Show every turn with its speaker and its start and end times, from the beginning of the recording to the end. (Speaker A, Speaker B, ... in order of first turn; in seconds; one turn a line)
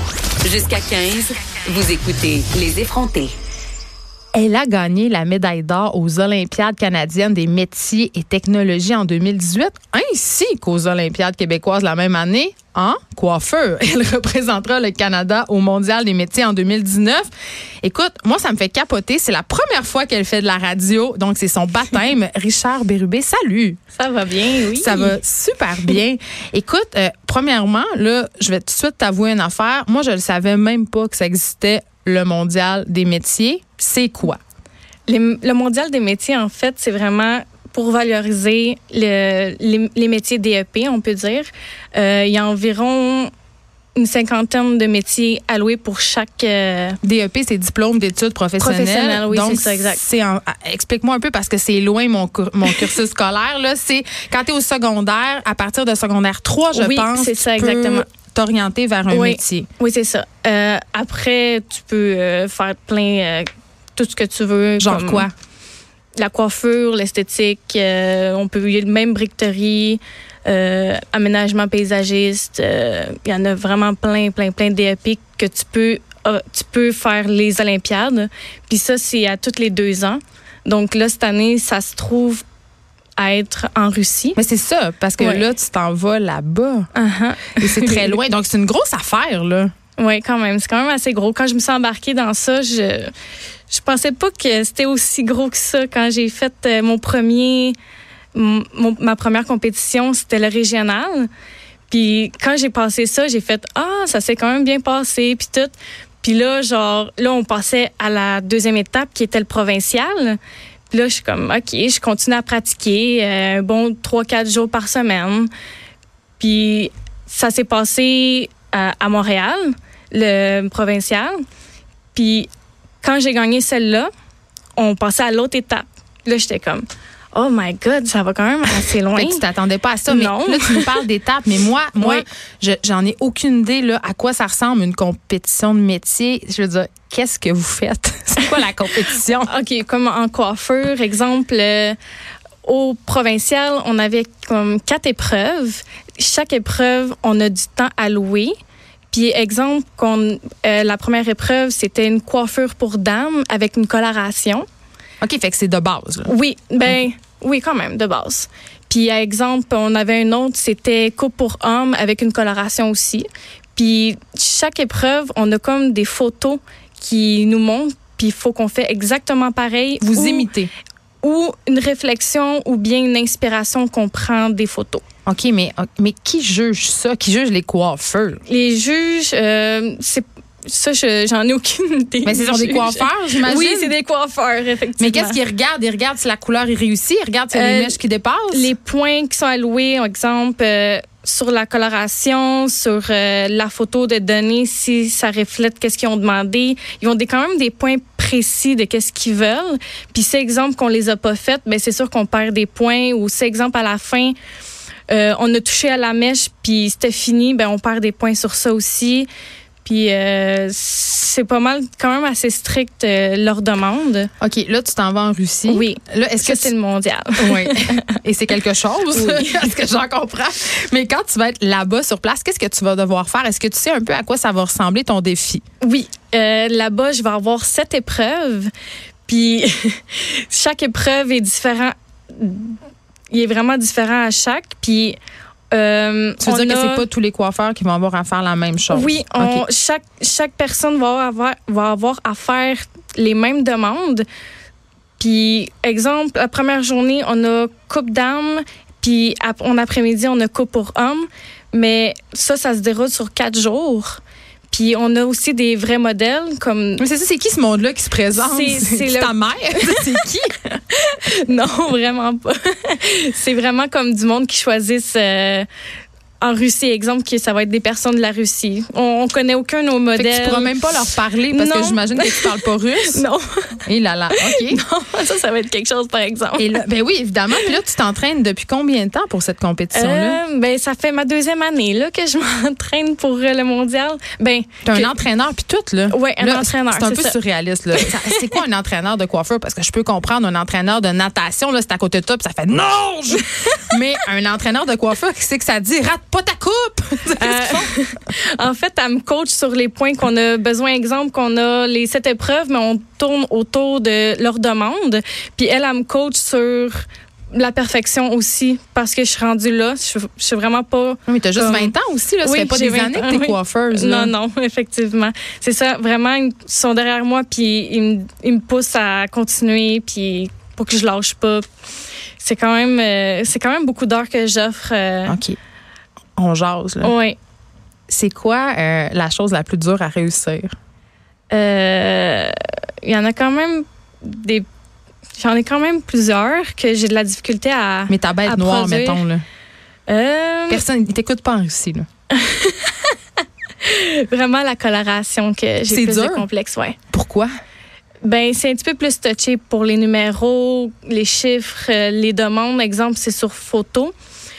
Speaker A: 0.4-3.3
Speaker B: 4.3-17.3
Speaker B: 17.8-23.8
Speaker C: 23.9-25.2
Speaker B: 24.7-34.4
Speaker C: 35.1-43.3
Speaker C: 44.0-47.0
Speaker B: 47.0-59.7
Speaker C: 48.6-50.0
Speaker C: 56.7-58.1
Speaker C: 59.1-65.3
Speaker B: 64.8-65.3
Speaker C: 66.2-82.4
Speaker C: 83.2-84.4
Speaker B: 84.4-86.9
Speaker C: 85.2-85.5
Speaker C: 86.9-88.1
Speaker B: 87.6-89.7
Speaker C: 90.0-93.1
Speaker C: 93.7-97.8
Speaker C: 98.3-101.3
Speaker C: 101.9-110.4
Speaker C: 110.9-115.5
Speaker C: 116.4-121.4
Speaker C: 122.1-122.5
Speaker C: 123.0-124.1
Speaker C: 124.8-129.4
Speaker B: 129.1-139.5
Speaker C: 130.1-131.1
Speaker C: 132.0-132.2
Speaker C: 139.2-142.0
Speaker C: 142.6-148.6
Speaker C: 149.1-154.7
Speaker B: 155.2-156.3
Speaker C: 156.2-170.5
Speaker B: 170.0-170.7
Speaker C: 171.2-175.0
Speaker B: 175.3-178.4
Speaker C: 178.5-185.4
Speaker B: 182.2-184.0
Speaker B: 185.0-188.7
Speaker C: 187.5-188.0
Speaker C: 188.5-204.3
Speaker C: 205.1-209.3
Speaker C: 209.8-214.3
Speaker B: 214.4-216.7
Speaker C: 215.7-218.1
Speaker B: 217.4-225.6
Speaker C: 219.1-219.7
Speaker C: 225.8-228.7
Speaker C: 229.3-232.8
Speaker C: 233.3-235.2
Speaker C: 235.7-237.1
Speaker B: 236.4-239.7
Speaker C: 238.9-244.3
Speaker C: 245.2-257.1
Speaker B: 257.0-260.6
Speaker C: 258.3-260.2
Speaker C: 260.9-265.7
Speaker C: 266.4-270.9
Speaker B: 270.2-273.2
Speaker C: 271.5-273.8
Speaker B: 273.9-274.8
Speaker C: 274.3-276.8
Speaker B: 276.6-280.4
Speaker C: 279.9-285.1
Speaker B: 284.8-297.9
Speaker C: 286.1-287.4
Speaker C: 287.9-288.4
Speaker C: 293.5-294.0
Speaker C: 297.4-321.6
Speaker B: 311.3-314.3
Speaker C: 322.4-325.4
Speaker B: 325.3-325.6
Speaker B: 326.4-327.1
Speaker C: 327.0-327.4
Speaker B: 328.1-330.7
Speaker C: 331.5-334.7
Speaker C: 335.4-339.2
Speaker B: 338.1-339.4
Speaker C: 340.1-340.8
Speaker B: 340.7-342.1
Speaker C: 342.3-343.2
Speaker C: 343.8-347.0
Speaker B: 345.9-346.5
Speaker B: 347.1-347.5
Speaker C: 348.2-354.1